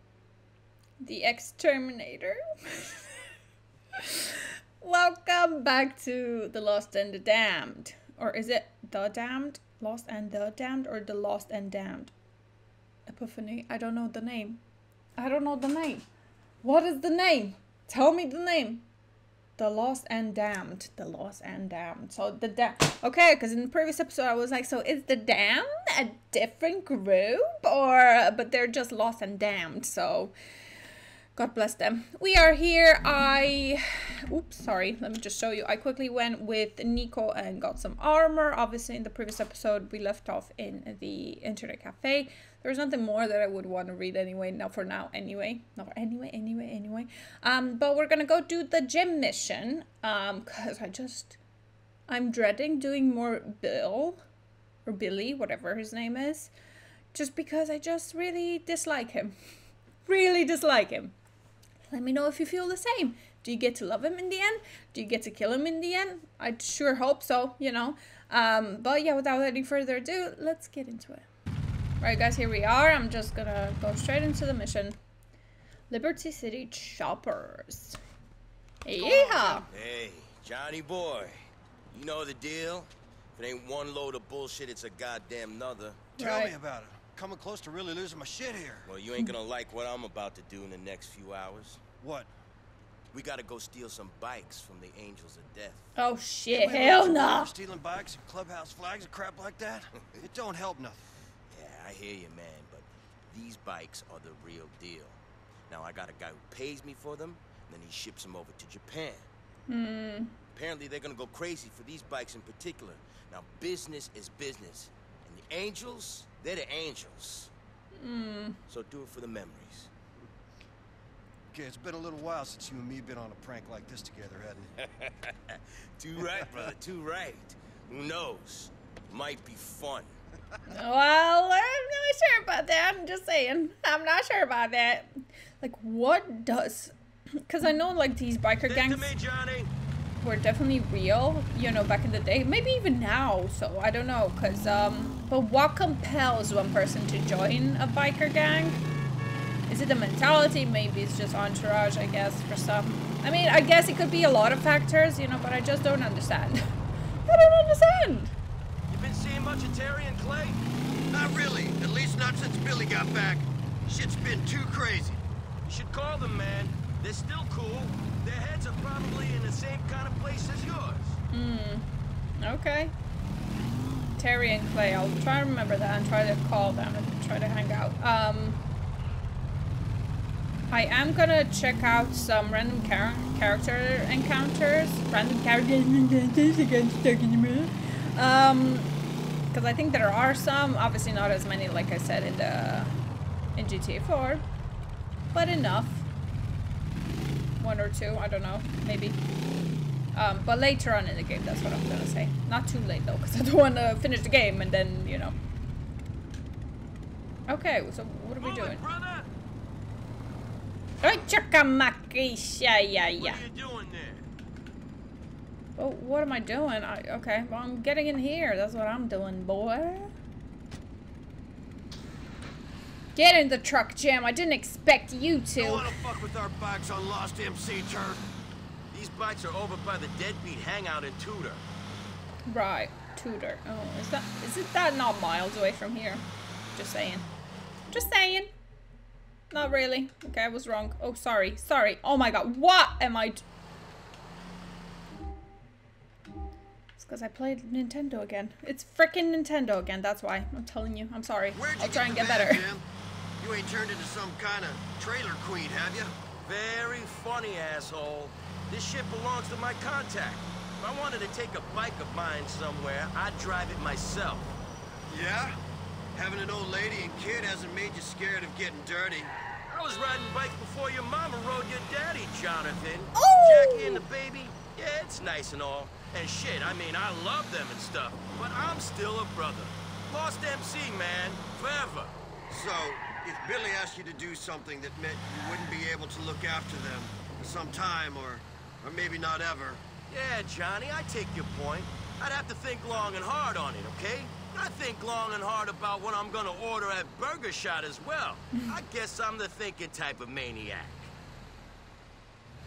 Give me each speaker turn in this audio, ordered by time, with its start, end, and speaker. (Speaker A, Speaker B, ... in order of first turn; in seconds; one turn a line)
Speaker A: 1.0-3.1
Speaker A: 4.0-12.1
Speaker A: 13.1-14.6
Speaker A: 15.2-16.1
Speaker A: 16.6-18.8
Speaker A: 19.6-30.4
Speaker A: 31.4-51.4
Speaker A: 52.1-54.2
Speaker A: 54.9-56.5
Speaker A: 57.1-59.4
Speaker A: 60.1-61.1
Speaker A: 61.9-71.3
Speaker A: 72.0-75.0
Speaker A: 75.9-78.0
Speaker A: 78.8-79.7
Speaker B: 79.0-79.7
Speaker C: 79.7-86.0
Speaker B: 86.2-88.9
Speaker A: 86.2-86.5
Speaker C: 88.9-91.8
Speaker B: 92.0-92.3
Speaker C: 93.1-95.9
Speaker A: 96.0-97.5
Speaker B: 96.5-101.1
Speaker C: 101.5-109.3
Speaker A: 109.7-110.4
Speaker C: 110.5-117.5
Speaker A: 118.0-118.6
Speaker C: 118.7-119.9
Speaker B: 121.5-124.7
Speaker C: 124.8-130.1
Speaker A: 130.7-136.9
Speaker A: 137.5-139.1
Speaker C: 138.7-139.7
Speaker A: 140.2-148.8
Speaker A: 149.7-158.3
Speaker C: 158.9-160.6
Speaker B: 161.1-165.2
Speaker C: 165.7-171.2
Speaker A: 171.3-171.9
Speaker A: 172.4-172.9
Speaker A: 174.2-178.6
Speaker A: 180.7-188.9
Speaker A: 189.5-192.9
Speaker A: 193.6-194.4
Speaker A: 195.3-196.1
Speaker A: 197.6-199.2
Speaker A: 200.1-205.3
Speaker A: 207.5-208.8
Speaker C: 208.4-209.3
Speaker A: 211.0-213.4
Speaker C: 213.2-214.3
Speaker A: 215.8-220.1
Speaker A: 223.2-226.1
Speaker B: 225.6-228.2
Speaker C: 228.9-231.6
Speaker A: 232.5-237.3
Speaker A: 237.9-238.5
Speaker A: 239.5-243.4
Speaker A: 247.0-252.7
Speaker B: 251.5-252.9
Speaker B: 253.4-256.1
Speaker C: 256.4-264.5
Speaker B: 265.1-265.6
Speaker B: 266.1-269.3
Speaker C: 269.7-282.1
Speaker A: 273.1-274.1
Speaker B: 282.5-289.8
Speaker C: 290.1-301.1